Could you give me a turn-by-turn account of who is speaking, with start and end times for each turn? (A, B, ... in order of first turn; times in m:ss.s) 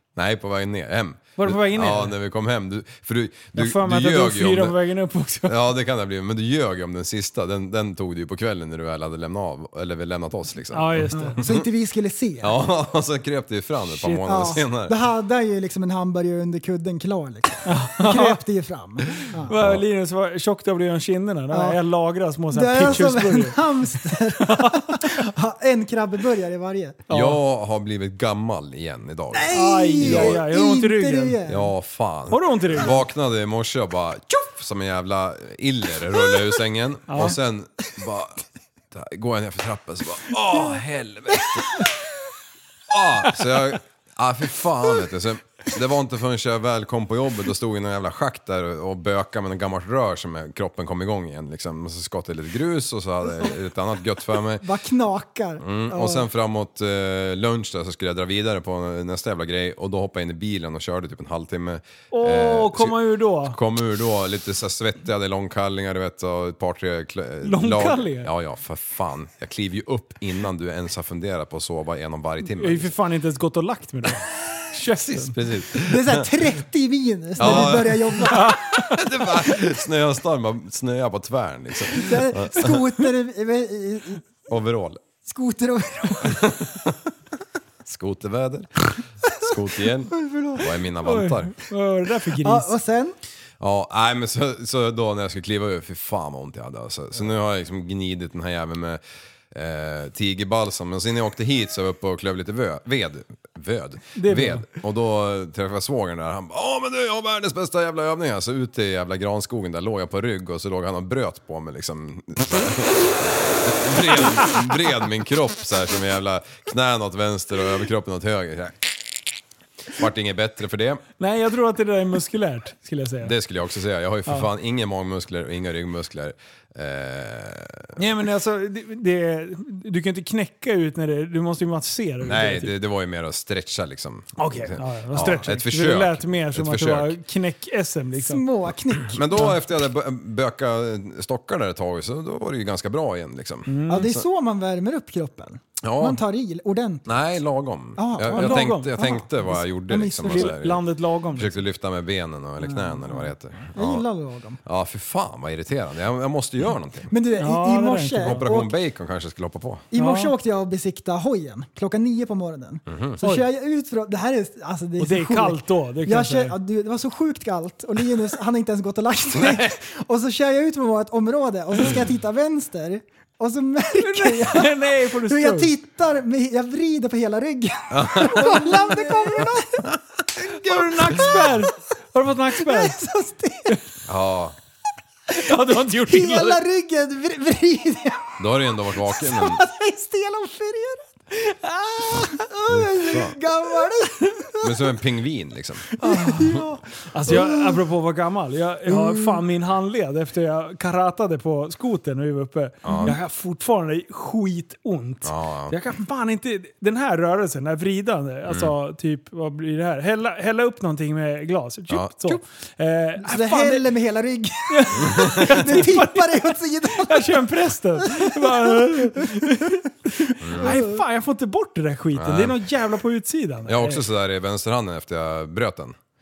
0:00.2-0:04.8 A
0:01.4-0:02.2 B
0:03.6-0:05.6 B
0:05.5-0:11.7 A
0:10.7-0:11.4 B
0:11.1-0:12.6 C
0:12.4-0:15.0 A
0:13.9-0:14.6 B
0:14.2-0:19.5 C
0:17.7-0:18.4 B
0:19.5-0:25.1 B
0:19.5-0:19.8 A
0:21.5-0:21.8 C
0:22.5-0:27.0 C
0:27.1-0:27.4 B
0:27.1-0:30.4 A
0:29.3-0:31.7 C
0:29.5-0:31.4 B
0:31.5-0:41.9 A
0:32.3-0:33.0 B
0:37.1-0:37.4 B
0:42.9-0:54.7 A
0:54.6-0:56.3 C
0:55.6-1:12.9 A
1:02.1-1:03.6 B
1:07.4-1:08.3 B
1:12.6-1:15.4 B
1:14.9-1:16.4 A
1:15.8-1:18.6 C
1:17.4-1:22.8 A
1:17.4-1:19.1 B
1:22.0-1:24.2 C
1:24.5-1:25.0 A
1:25.2-1:26.5 C
1:26.2-1:27.0 A
1:27.8-1:31.6 A
1:30.1-1:30.7 C
1:31.0-1:32.7 B
1:32.4-1:33.2 C
1:33.6-1:58.8 A
1:44.2-1:44.7 B
1:59.9-2:01.0 A
2:01.2-2:03.4 B
2:03.2-2:08.0 A
2:08.0-2:12.7 B
2:12.2-2:17.2 A
2:14.4-2:18.4 B
2:18.2-2:19.6 C
2:19.0-2:24.2 A
2:23.7-2:24.1 B
2:23.9-2:27.1 C
2:25.8-2:26.2 A
2:27.1-2:34.1 A
2:28.0-2:30.6 C
2:28.3-2:29.0 B
2:30.3-2:31.5 B
2:32.6-2:34.6 C
2:34.6-2:37.1 A
2:37.1-2:38.7 C
2:37.4-2:38.4 B
2:38.2-2:39.9 A
2:39.9-2:59.8 C
2:40.0-2:40.3 B
2:42.9-2:43.2 A
2:43.2-2:43.5 B
2:45.0-2:46.6 B
2:49.3-2:49.7 A
2:54.0-2:55.7 B
2:57.9-2:58.6 A
2:58.3-2:59.4 B
3:00.6-3:03.0 B
3:01.0-3:01.6 C
3:02.6-3:03.8 C
3:04.0-3:04.6 A
3:05.4-3:08.4 C
3:05.4-3:06.6 B
3:08.4-3:09.6 A
3:09.0-3:11.1 C
3:11.5-3:12.0 B
3:12.0-3:14.9 C
3:12.7-3:13.4 A
3:14.6-3:15.9 A
3:15.9-3:17.8 C
3:16.0-3:33.9 B
3:18.9-3:19.4 C
3:22.8-3:23.2 A
3:25.2-3:25.8 A
3:28.5-3:28.7 A
3:33.2-3:39.7 C
3:34.7-3:44.0 B
3:35.0-3:35.5 A
3:40.3-3:40.8 C
3:40.4-3:40.8 A
3:42.1-3:42.6 A
3:43.7-3:46.0 A